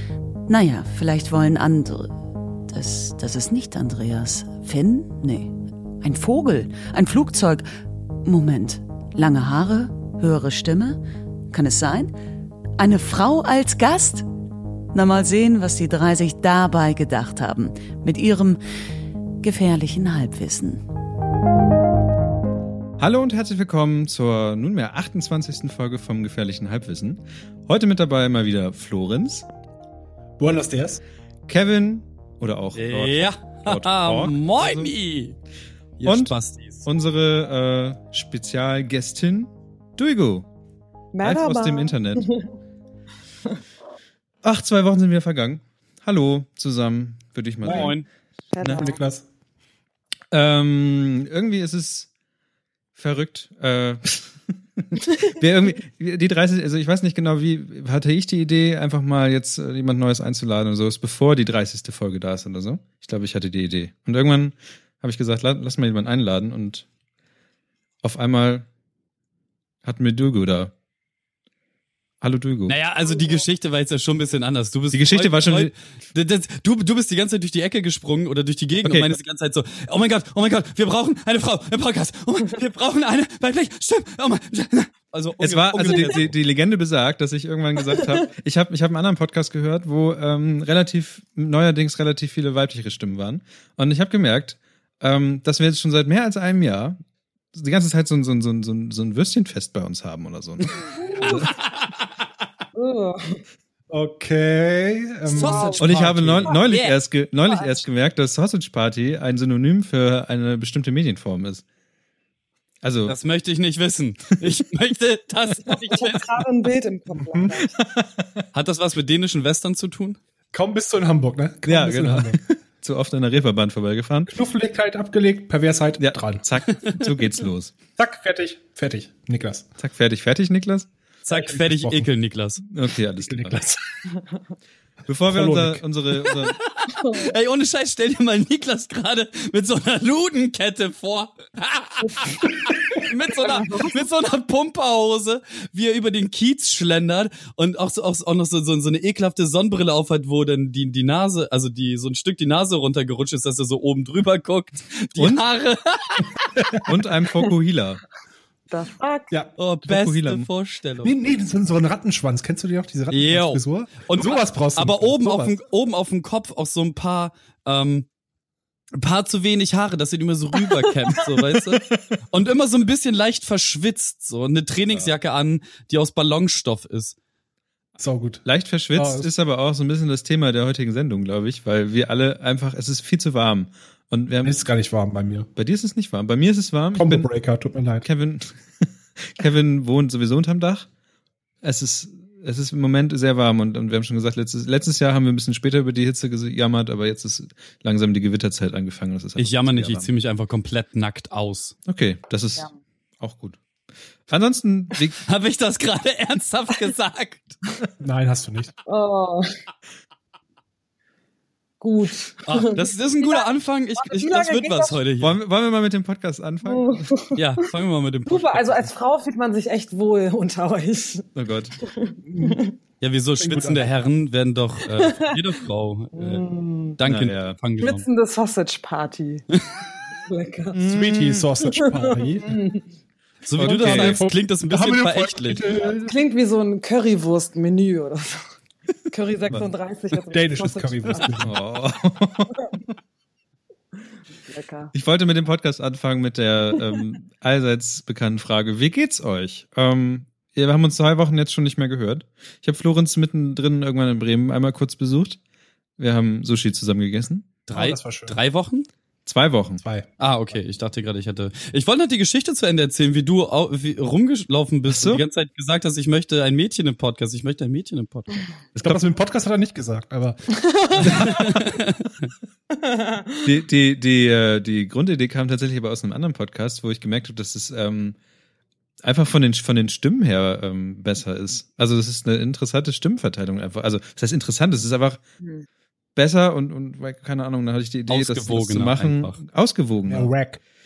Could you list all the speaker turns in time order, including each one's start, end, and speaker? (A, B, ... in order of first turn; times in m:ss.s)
0:00.5-0:02.2 A
0:02.7-0:07.6 A
0:08.2-0:11.0 A
0:11.5-0:12.1 A
0:12.8-0:14.2 A
0:14.9-0:18.6 A
0:19.4-0:20.8 A
0:23.0-0:29.4 B
0:30.4-0:31.0 C
0:31.5-0:34.9 B
0:32.7-0:35.4 D
0:36.0-0:36.8 D
0:36.0-0:40.5 B
0:41.1-0:42.5 E
0:41.2-0:42.3 B
0:44.4-0:48.0 B
0:47.6-0:47.9 C
0:47.6-0:48.0 D
0:48.5-0:49.0 E
0:48.6-0:48.9 B
0:48.7-0:49.2 C
0:50.3-0:52.1 B
0:52.9-1:06.8 B
1:08.0-1:08.7 B
1:09.8-1:10.7 B
1:12.2-1:12.8 B
1:12.7-1:26.3 D
1:14.9-1:15.7 B
1:18.8-1:19.1 B
1:25.4-1:37.0 B
1:37.5-1:41.4 B
1:40.9-1:41.4 E
1:41.2-1:41.9 D
1:42.7-1:43.4 E
1:43.9-1:46.1 C
1:45.2-1:47.0 D
1:45.4-1:45.8 E
1:45.8-1:51.6 B
1:52.8-1:53.1 B
1:53.1-1:56.2 D
1:55.6-1:57.8 E
1:57.2-1:57.6 C
1:57.8-1:58.4 B
1:58.5-2:00.2 D
2:00.5-2:02.4 C
2:01.7-2:04.3 B
2:04.3-2:06.4 C
2:06.0-2:07.7 B
2:08.0-2:09.7 C
2:09.8-2:10.9 B
2:11.2-2:12.6 D
2:11.3-2:12.1 C
2:12.6-2:13.6 B
2:13.2-2:13.8 C
2:15.1-2:16.6 B
2:15.3-2:15.8 C
2:16.6-2:36.5 D
2:17.0-2:17.3 E
2:35.2-2:35.4 B
2:36.8-2:38.0 B
2:38.7-2:39.3 E
2:39.6-2:41.1 D
2:39.8-2:40.5 B
2:41.0-2:45.6 C
2:43.1-2:48.1 D
2:48.9-2:57.2 D
2:58.0-2:59.3 C
2:58.4-3:04.6 B
3:04.4-3:05.5 C
3:05.6-3:07.3 B
3:06.9-3:08.0 C
3:08.0-3:10.9 B
3:11.6-3:20.1 B
3:19.4-3:21.8 D
3:21.9-3:22.7 B
3:23.2-3:23.6 B
3:24.3-3:25.2 B
3:25.2-3:27.5 D
3:28.0-3:28.7 C
3:28.8-3:29.5 E
3:31.8-3:33.5 E
3:32.4-3:35.3 D
3:34.0-3:35.0 E
3:35.2-3:37.1 B
3:36.6-3:37.6 E
3:37.3-3:38.9 D
3:38.2-3:41.2 E
3:41.3-3:41.8 B
3:41.8-3:42.8 E
3:42.3-3:42.6 C
3:43.0-3:46.2 D
3:43.4-3:43.9 C
3:44.9-3:45.4 E
3:46.1-3:47.0 E
3:47.0-3:48.0 D
3:47.0-3:47.6 B
3:47.8-3:49.4 E
3:50.2-3:50.8 E
3:50.7-3:51.5 B
3:50.9-3:52.6 C
3:51.6-3:52.8 E
3:53.4-3:55.6 D
3:53.6-3:54.3 B
3:53.6-3:56.1 C
3:55.9-3:58.5 E
3:59.1-4:01.4 E
4:00.3-4:01.6 C
4:01.4-4:02.6 B
4:04.5-4:04.9 E
4:04.9-4:15.4 B
4:16.0-4:17.5 B
4:17.7-4:18.9 D
4:17.7-4:18.3 C
4:19.2-4:19.8 B
4:19.8-4:20.1 C
4:20.2-4:28.4 D
4:24.9-4:25.2 B
4:28.7-4:31.7 C
4:28.8-4:29.1 B
4:30.5-4:31.2 E
4:31.2-4:32.2 D
4:32.8-4:33.4 E
4:33.4-4:38.2 B
4:39.0-4:45.2 B
4:46.2-4:50.3 B
4:48.1-4:49.4 D
4:50.1-4:50.6 C